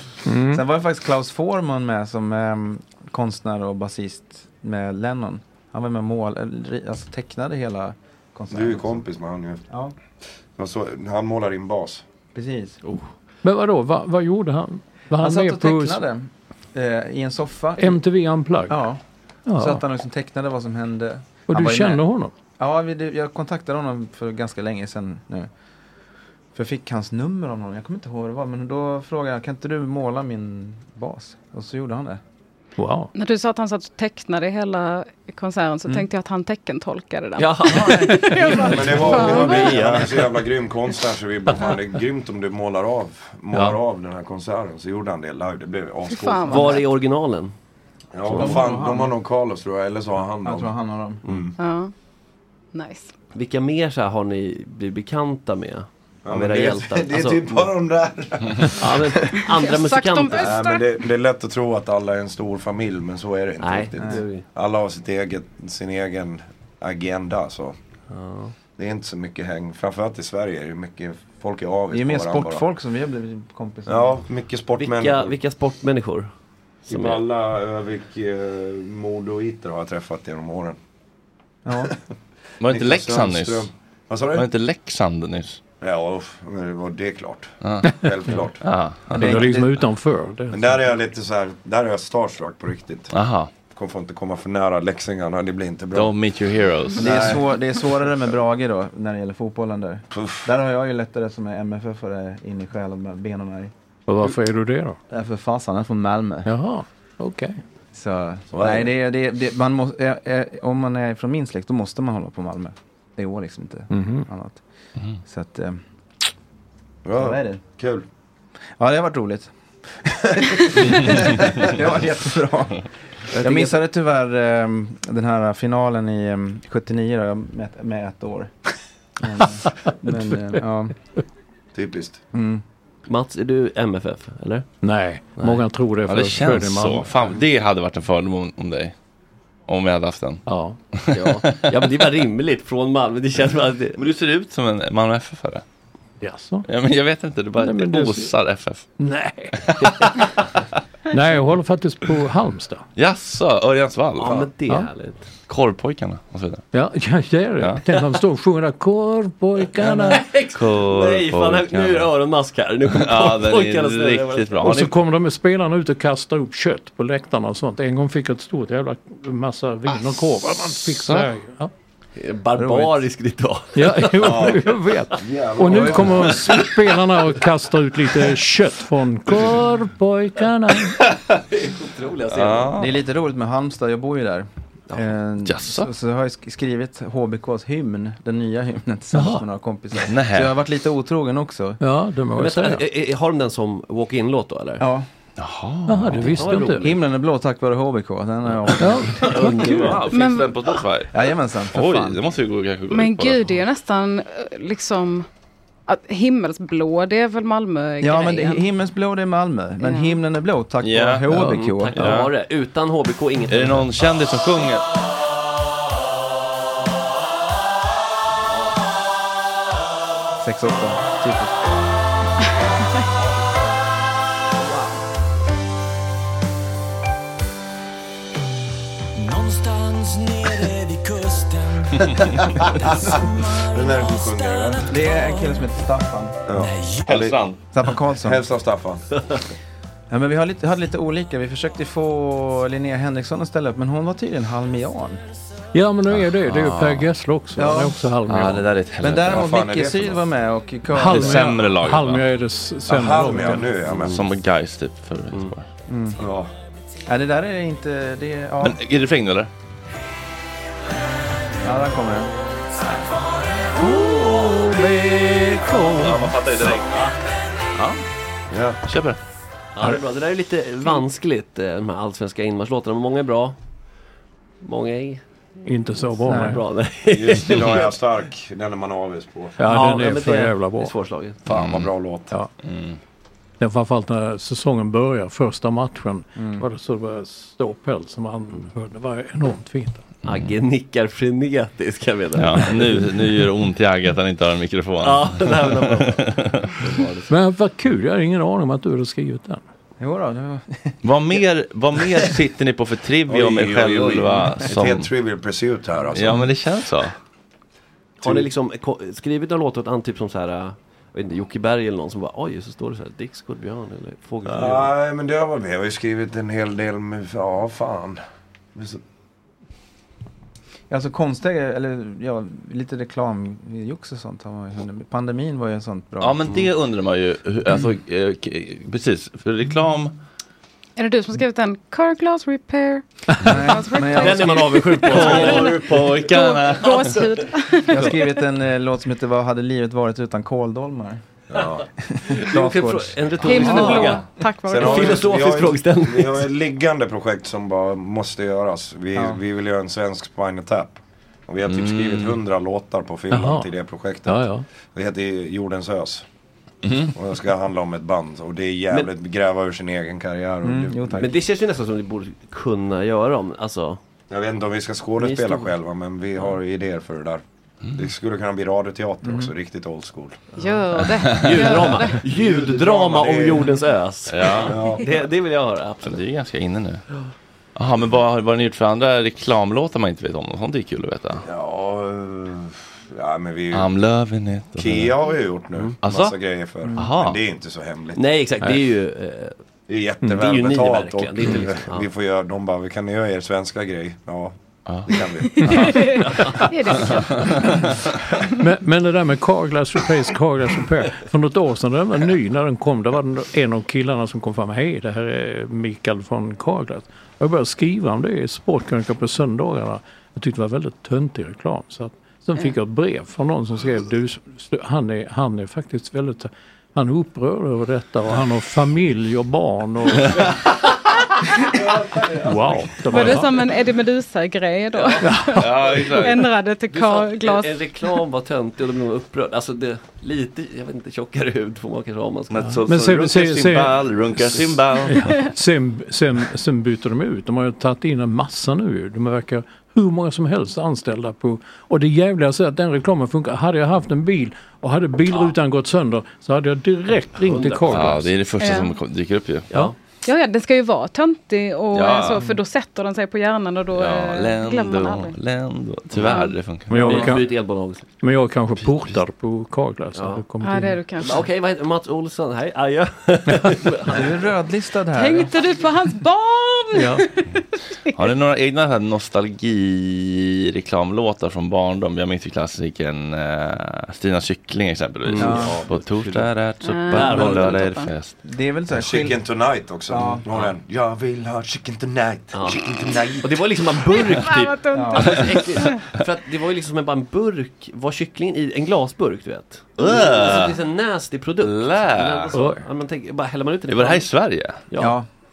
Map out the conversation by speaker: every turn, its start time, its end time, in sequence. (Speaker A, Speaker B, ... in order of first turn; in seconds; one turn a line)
Speaker A: 0.2-0.6
Speaker B: 0.5-9.0
Speaker C: 8.5-9.7
Speaker B: 9.7-9.9
Speaker C: 10.4-12.0
Speaker B: 12.3-12.8
Speaker A: 13.4-16.0
Speaker B: 15.2-18.0
Speaker A: 17.8-18.8
Speaker B: 18.7-19.0
Speaker A: 19.4-19.8
Speaker B: 19.6-22.0
Speaker A: 21.5-22.3
Speaker B: 22.6-25.5
Speaker B: 26.5-32.2
Speaker A: 32.8-33.1
Speaker D: 33.1-39.7
Speaker E: 37.4-40.4
Speaker B: 37.7-38.1
Speaker C: 38.7-46.8
Speaker D: 46.1-46.8
Speaker E: 46.5-47.5
Speaker C: 48.1-50.7
Speaker E: 48.3-48.5
Speaker B: 48.3-49.1
Speaker B: 50.4-51.2
Speaker C: 51.2-51.5
Speaker D: 51.6-51.9
Speaker D: 52.7-53.1
Speaker E: 53.3-57.7
Speaker C: 56.2-59.2
Speaker E: 58.8-60.5
Speaker D: 59.5-60.8
Speaker C: 60.3-67.8
Speaker E: 63.6-64.4
Speaker B: 64.0-64.2
Speaker E: 68.1-68.5
Speaker C: 68.8-72.6
Speaker B: 71.9-74.2
Speaker C: 73.8-75.3
Speaker E: 74.8-76.3
Speaker E: 76.9-77.2
Speaker C: 76.9-80.8
Speaker B: 81.6-81.9
Speaker F: 82.6-83.7
Speaker C: 82.7-84.5
Speaker F: 84.3-85.6
Speaker C: 85.8-88.6
Speaker F: 87.6-88.0
Speaker A: 87.8-88.1
Speaker F: 88.6-89.3
Speaker A: 89.1-90.8
Speaker B: 89.2-89.7
Speaker C: 90.5-93.1
Speaker F: 93.1-93.5
Speaker C: 93.7-96.1
Speaker F: 95.9-97.3
Speaker C: 97.0-97.4
Speaker B: 97.0-103.7
Speaker C: 100.1-100.5
Speaker A: 104.1-105.0
Speaker B: 105.1-106.5
Speaker A: 106.5-107.5
Speaker B: 107.9-114.6
Speaker C: 108.5-108.9
Speaker A: 113.9-114.3
Speaker B: 115.2-115.8
Speaker C: 117.0-118.0
Speaker B: 117.1-117.7
Speaker B: 118.8-119.5
Speaker B: 120.0-122.8
Speaker E: 123.3-123.7
Speaker B: 123.3-128.5
Speaker B: 129.2-130.9
Speaker C: 131.7-132.2
Speaker B: 132.3-132.6
Speaker E: 133.1-134.7
Speaker A: 134.8-137.3
Speaker F: 136.1-138.9
Speaker F: 139.7-141.5
Speaker A: 140.4-140.8
Speaker E: 141.1-144.0
Speaker F: 143.9-145.6
Speaker A: 146.2-146.7
Speaker F: 146.7-148.8
Speaker A: 147.6-148.3
Speaker A: 149.0-150.1
Speaker F: 149.6-150.1
Speaker A: 151.1-152.8
Speaker F: 152.9-154.5
Speaker E: 154.2-155.3
Speaker F: 155.5-156.6
Speaker A: 156.7-160.3
Speaker F: 159.8-162.1
Speaker E: 160.1-164.6
Speaker F: 162.9-164.9
Speaker A: 164.6-171.7
Speaker F: 170.9-171.3
Speaker E: 172.2-174.5
Speaker B: 172.6-173.0
Speaker A: 173.7-181.0
Speaker C: 174.2-174.6
Speaker C: 175.2-176.3
Speaker E: 181.5-182.8
Speaker F: 182.3-183.0
Speaker B: 182.8-191.8
Speaker F: 185.4-185.9
Speaker A: 189.1-189.4
Speaker F: 190.1-190.5
Speaker A: 191.8-192.8
Speaker E: 192.3-194.8
Speaker B: 194.8-195.1
Speaker F: 195.4-196.5
Speaker A: 195.9-197.0
Speaker E: 196.2-197.0
Speaker B: 196.8-199.0
Speaker E: 198.7-200.1
Speaker A: 198.8-200.0
Speaker F: 199.2-201.1
Speaker D: 200.1-200.5
Speaker B: 201.1-202.2
Speaker F: 201.7-203.5
Speaker D: 202.9-205.2
Speaker D: 205.9-208.6
Speaker B: 208.0-212.0
Speaker D: 209.8-210.2
Speaker F: 210.8-212.3
Speaker E: 211.4-213.9
Speaker F: 213.5-214.8
Speaker B: 220.4-221.6
Speaker E: 224.6-224.9
Speaker G: 229.2-231.8
Speaker C: 232.6-234.9
Speaker B: 234.8-236.4
Speaker C: 236.4-237.4
Speaker F: 237.0-237.6
Speaker B: 237.7-238.4
Speaker C: 238.2-239.0
Speaker B: 240.1-245.2
Speaker A: 245.7-248.7
Speaker F: 246.1-247.1
Speaker B: 247.6-248.0
Speaker F: 248.3-249.5
Speaker B: 249.0-251.4
Speaker C: 249.3-250.2
Speaker A: 250.9-253.8
Speaker F: 251.1-252.2
Speaker C: 252.9-254.2
Speaker F: 254.0-255.7
Speaker B: 255.9-256.2
Speaker C: 256.2-256.5
Speaker B: 257.1-258.8
Speaker F: 258.6-259.5
Speaker B: 261.6-262.3
Speaker A: 263.8-266.4
Speaker F: 265.9-267.1
Speaker F: 267.7-268.0
Speaker C: 268.5-268.8
Speaker F: 268.9-269.2
Speaker E: 269.7-273.6
Speaker E: 274.6-275.2
Speaker A: 275.6-276.6
Speaker E: 276.2-277.9
Speaker C: 277.1-279.6
Speaker A: 279.6-280.9
Speaker E: 279.6-281.4
Speaker C: 281.4-282.3
Speaker F: 281.5-281.9
Speaker F: 282.6-283.0
Speaker A: 283.6-290.1
Speaker B: 286.4-286.6
Speaker E: 290.2-293.1
Speaker F: 292.4-296.7
Speaker E: 295.0-297.3
Speaker A: 297.3-299.6
Speaker B: 300.0-301.0
Speaker F: 301.0-305.1
Speaker C: 303.3-306.4
Speaker F: 306.1-307.1
Speaker E: 308.2-314.9
Speaker C: 314.4-318.2
Speaker C: 318.7-319.0
Speaker B: 320.9-326.4
Speaker F: 326.2-330.1
Speaker D: 331.0-335.8
Speaker B: 333.4-335.3
Speaker E: 334.0-336.2
Speaker F: 335.0-337.2
Speaker D: 336.3-338.3
Speaker B: 337.9-341.2
Speaker C: 341.5-341.9
Speaker B: 342.0-344.1
Speaker E: 342.3-346.5
Speaker D: 343.4-345.2
Speaker C: 344.6-356.2
Speaker B: 349.1-349.4
Speaker F: 351.6-352.4
Speaker A: 353.3-353.7
Speaker A: 354.2-354.6
Speaker F: 356.8-357.1
Speaker C: 357.1-361.2
Speaker B: 360.6-361.3
Speaker E: 361.1-364.0
Speaker C: 364.3-367.4
Speaker E: 365.2-365.7
Speaker C: 367.9-370.4
Speaker B: 369.2-369.5
Speaker D: 370.6-372.2
Speaker F: 371.2-371.7
Speaker E: 371.3-376.2
Speaker C: 372.2-373.7
Speaker F: 374.3-374.8
Speaker C: 374.6-375.1
Speaker F: 376.0-377.0
Speaker F: 377.8-381.4
Speaker C: 381.4-383.9
Speaker F: 383.7-385.1
Speaker C: 384.7-388.2
Speaker F: 386.0-386.4
Speaker F: 386.9-387.4
Speaker E: 388.1-389.5
Speaker C: 389.9-395.9
Speaker E: 390.2-392.1
Speaker D: 395.7-397.6
Speaker E: 396.1-396.6
Speaker A: 398.6-420.5
Speaker A: 422.4-423.5
Speaker D: 423.1-427.8
Speaker E: 424.9-425.3
Speaker A: 425.2-425.7
Speaker F: 425.6-426.5
Speaker E: 426.9-432.8
Speaker F: 432.5-435.4
Speaker A: 432.6-448.4
Speaker E: 447.4-448.2
Speaker F: 447.9-449.7
Speaker D: 448.6-449.0
Speaker D: 450.2-455.3
Speaker F: 451.9-452.4
Speaker F: 453.9-457.1
Speaker D: 456.2-456.5
Speaker A: 456.9-457.6
Speaker E: 456.9-458.1
Speaker A: 458.2-461.0
Speaker E: 460.1-460.4
Speaker D: 460.6-461.4
Speaker E: 461.2-464.4
Speaker B: 464.1-465.5
Speaker D: 465.1-467.4
Speaker A: 466.9-467.3
Speaker F: 468.1-478.4
Speaker E: 475.2-476.5
Speaker B: 475.4-475.8
Speaker D: 476.8-478.1
Speaker E: 477.1-477.8
Speaker B: 478.4-479.4
Speaker C: 478.9-483.6
Speaker B: 480.1-480.4
Speaker E: 482.5-482.8
Speaker E: 483.4-494.3
Speaker D: 484.1-486.0
Speaker B: 484.9-485.3
Speaker F: 490.0-490.8
Speaker F: 491.6-492.5
Speaker A: 492.5-492.8
Speaker F: 493.9-494.8
Speaker E: 494.9-495.1
Speaker B: 494.9-495.2